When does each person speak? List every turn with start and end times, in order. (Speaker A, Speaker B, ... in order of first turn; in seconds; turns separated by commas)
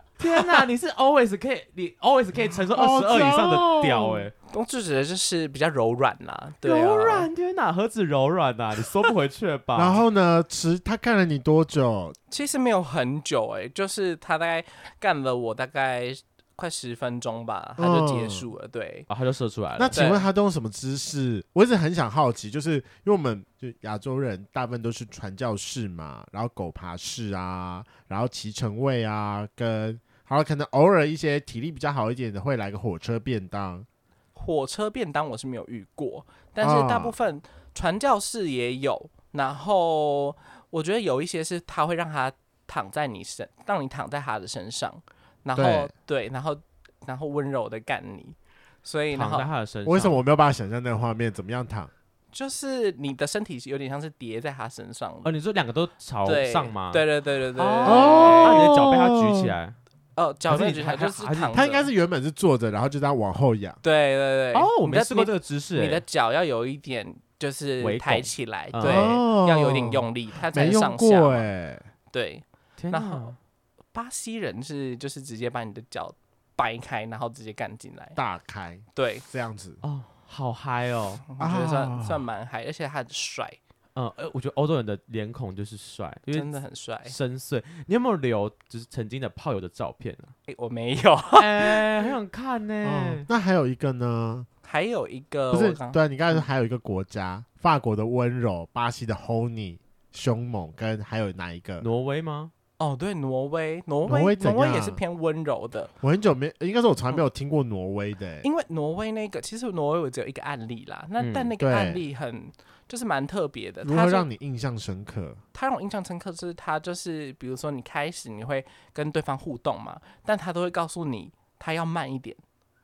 Speaker A: 0.2-4.3, Speaker B: 2.7-4.3, Speaker C: 4.5-7.3, Speaker A: 6.6-10.0, Speaker B: 9.7-12.2, Speaker C: 12.3-19.1, Speaker B: 17.8-18.4, Speaker A: 19.1-20.0, Speaker B: 19.8-33.9, Speaker C: 19.9-20.3, Speaker C: 34.3-49.5, Speaker B: 36.6-37.1, Speaker B: 45.5-45.9, Speaker A: 49.1-50.2, Speaker B: 49.8-51.9, Speaker C: 52.3-55.3, Speaker A: 55.2-59.8, Speaker C: 56.2-58.7, Speaker B: 57.8-59.5, Speaker C: 60.1-61.9, Speaker A: 60.5-61.7, Speaker B: 61.5-63.8, Speaker C: 63.8-71.5, Speaker A: 64.5-66.0, Speaker A: 67.8-69.2, Speaker B: 68.8-71.8, Speaker C: 72.1-73.4, Speaker A: 72.8-73.4, Speaker C: 73.9-78.2, Speaker B: 78.2-79.8, Speaker C: 78.9-79.2, Speaker A: 79.8-81.2, Speaker C: 81.3-83.6, Speaker B: 81.4-82.2, Speaker A: 83.9-90.3, Speaker C: 86.3-87.1, Speaker C: 90.5-92.0, Speaker A: 91.3-93.3, Speaker B: 92.8-94.5, Speaker C: 94.6-96.4, Speaker B: 95.5-101.8, Speaker A: 101.8-102.5, Speaker C: 102.8-105.9, Speaker B: 104.0-105.0, Speaker B: 106.0-108.5, Speaker C: 108.4-114.3, Speaker A: 111.2-111.5, Speaker B: 111.6-112.0, Speaker B: 113.8-115.4, Speaker C: 115.5-122.4